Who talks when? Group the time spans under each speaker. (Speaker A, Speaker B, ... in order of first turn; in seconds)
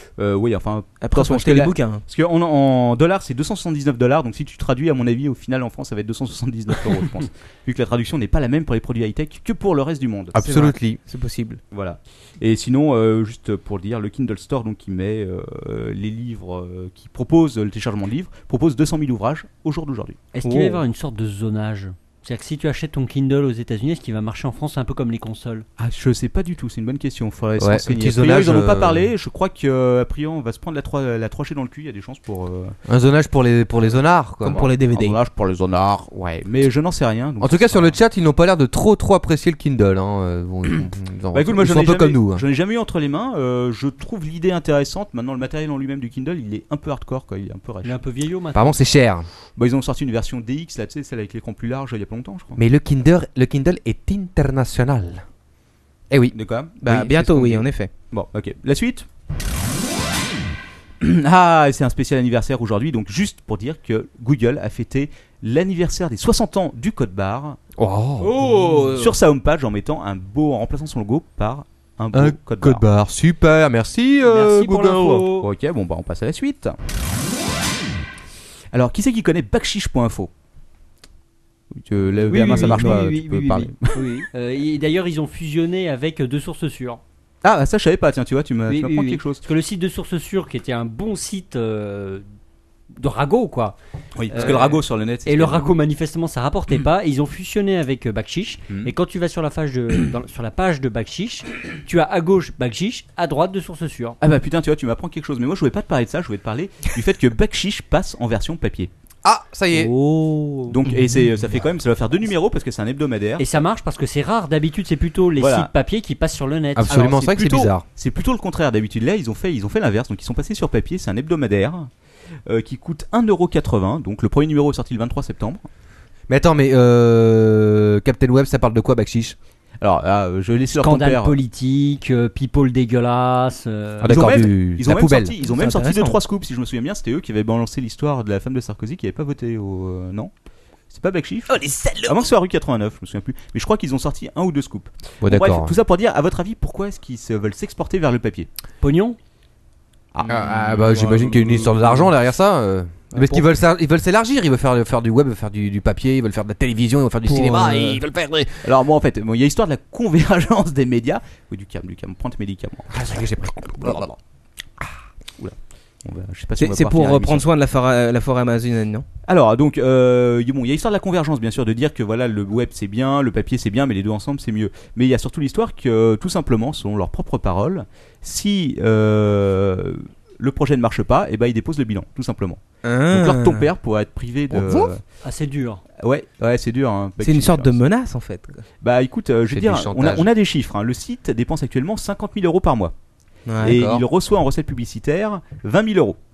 Speaker A: 0.2-10.4, 11.7-20.2, 25.8-32.8, 34.4-38.0, 40.7-48.0, 49.6-52.6, 56.3-59.1, 61.0-67.6, 68.9-72.8, 75.4-76.8, 78.7-80.3, 81.8-84.1, 87.4-89.4, 94.2-95.7, 104.2-108.9, 110.7-113.5, 115.4-115.7, 116.9-121.9, 122.5-125.7, 129.8-131.4, 134.0-140.3, 140.9-148.5, 150.2-151.5, 158.6-162.9, 165.4-167.5, 169.3-185.0, 186.0-187.8, 188.8-192.9, 193.6-196.2
Speaker B: 1.0-2.0, 10.4-11.6, 20.4-20.8, 34.4-35.2, 56.8-57.9, 68.2-69.2, 82.5-82.9, 109.7-111.3, 135.4-136.2, 141.6-142.2, 151.0-151.8, 153.1-153.5, 157.3-158.0, 166.6-169.1, 182.8-183.7, 187.2-188.6, 193.5-193.8
Speaker C: 10.3-11.0, 27.6-29.1, 32.9-34.7, 37.4-42.4, 48.5-49.3, 52.6-55.2, 56.1-56.4, 67.8-68.6, 72.1-75.3, 109.2-109.9, 116.8-117.8, 126.3-129.4, 134.0-135.3, 145.2-145.8, 150.2-158.7, 162.9-164.2, 184.5-184.9, 189.5-190.3, 193.6-194.1
Speaker D: 20.3-25.7, 47.8-48.8, 74.2-75.5, 82.3-87.0, 88.7-92.2, 93.0-93.8, 94.3-104.2, 113.4-117.2, 130.7-134.3, 148.8-149.2, 185.2-185.8